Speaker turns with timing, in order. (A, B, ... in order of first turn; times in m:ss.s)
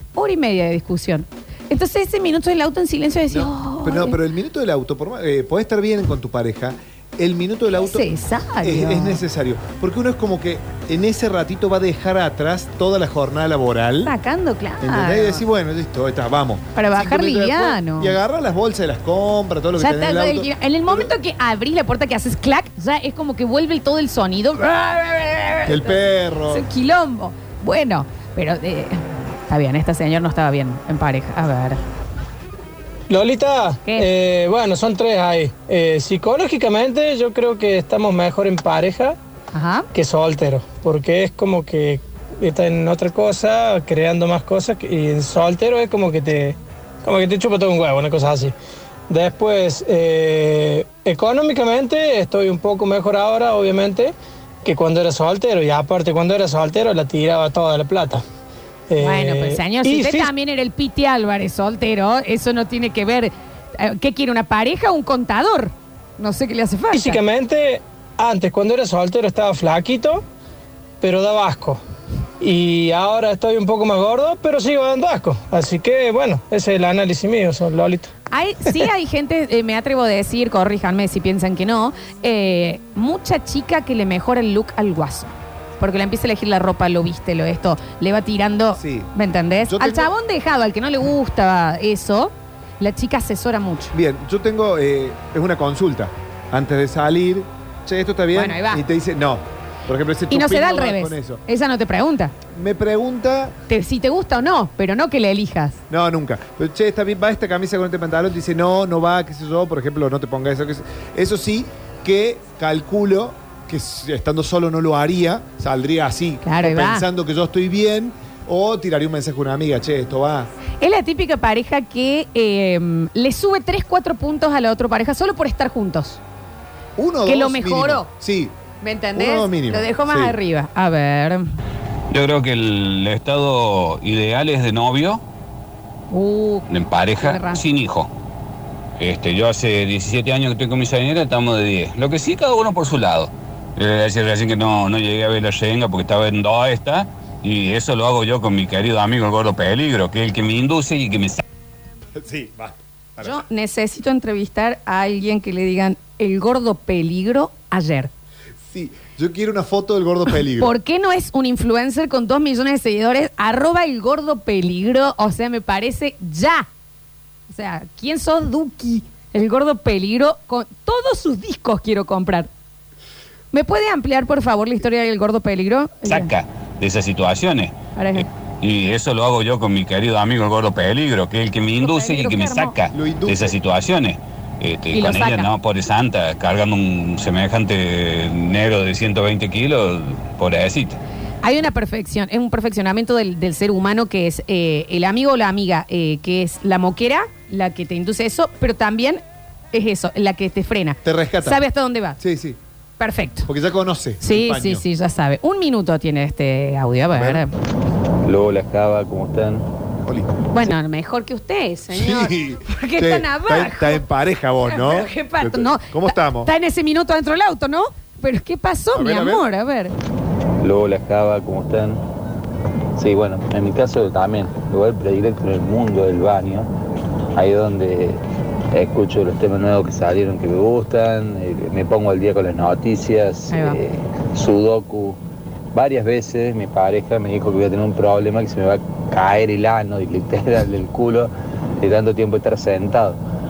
0:00.2-0:04.2 A
0:03.3-0:08.1 B
0:07.8-0:09.2 A
0:08.6-0:14.2 B
0:14.0-0:15.4 A
0:14.8-0:21.1 B
0:16.8-0:18.2 A
0:19.8-0:31.8 A
0:25.7-0:26.6 B
0:33.1-0:39.2 C
0:39.5-0:39.9 A
0:39.9-0:48.6 C
0:49.1-0:58.2 C
0:58.9-1:00.3 C
0:59.0-1:07.2 A
1:06.9-1:10.2 C
1:11.0-1:11.8 C
1:12.4-1:18.1 C
1:18.3-1:33.9 A
1:28.8-1:29.1 B
1:29.6-1:30.1 B
1:33.9-1:41.4 B
1:38.3-1:38.8 A
1:40.3-1:42.3 A
1:42.5-1:43.6 B
1:43.7-1:45.8 A
1:45.9-2:00.5 B
1:56.4-1:57.0 A
2:00.8-2:06.2 A
2:07.0-2:08.6 B
2:07.2-2:08.1 A
2:08.8-2:11.5 A
2:09.2-2:10.4 B
2:12.1-2:15.2 D
2:16.1-2:17.6 A
2:16.7-2:18.1 D
2:19.0-2:31.4 D
2:32.2-2:33.4 B
2:33.2-2:38.1 A
2:38.7-2:40.7 B
2:40.6-2:46.7 A
2:47.5-2:52.5 A
2:53.5-2:56.3 A
2:56.0-3:11.0 D
2:58.0-2:58.3 A
3:01.8-3:02.8 A
3:02.9-3:03.6 B
3:04.9-3:05.5 A
3:11.4-3:19.2 A
3:19.7-3:22.2 A
3:21.0-3:21.6 B
3:22.2-3:22.6 B
3:23.0-3:23.5 A
3:23.5-3:24.8 B
3:24.2-3:27.5 A
3:27.1-3:27.4 B
3:28.2-3:29.6 E
3:30.1-3:30.6 B
3:30.5-3:34.0 A
3:31.9-3:36.5 B
3:34.7-3:39.9 A
3:38.9-3:39.5 B
3:40.6-3:42.0 E
3:43.0-3:46.7 E
3:47.4-3:48.2 E
3:48.7-3:55.2 E
3:53.5-3:53.8 A
3:55.7-4:03.2 E